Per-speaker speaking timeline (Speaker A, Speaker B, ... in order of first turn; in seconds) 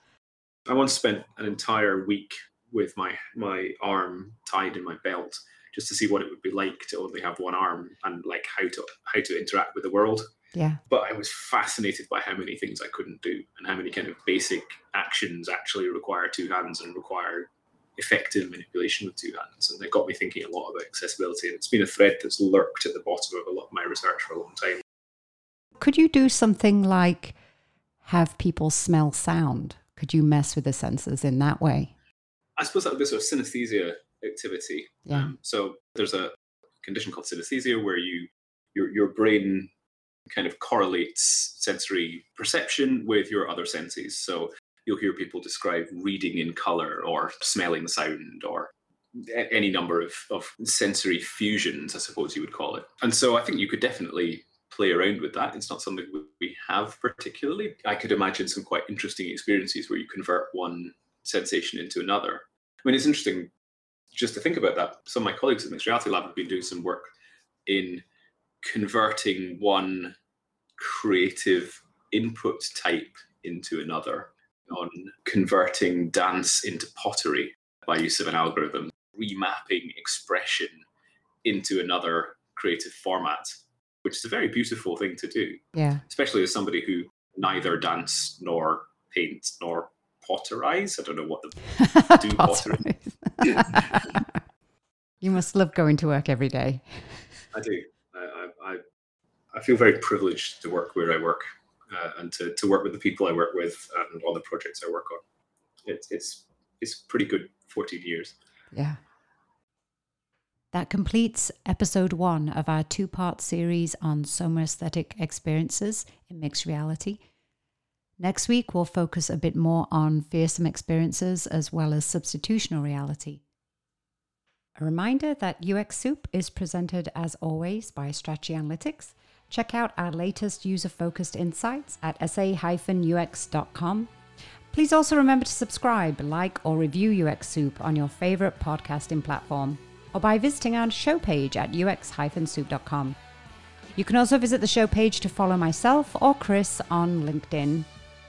Speaker A: 0.7-10.2, 10.9-24.8, 32.6-39.7, 40.3-63.5, 64.1-67.1, 67.7-68.0, 68.6-70.1, 70.8-80.8, 81.4-93.8, 97.5-98.8, 99.5-105.2, 105.9-108.4
Speaker B: 10.6-10.8, 25.8-27.4, 28.0-31.9, 35.1-35.3, 85.7-86.0, 91.8-94.4, 95.2-97.3, 108.7-109.0, 110.7-117.2, 118.2-123.4, 124.8-134.1, 134.7-143.2, 144.0-147.9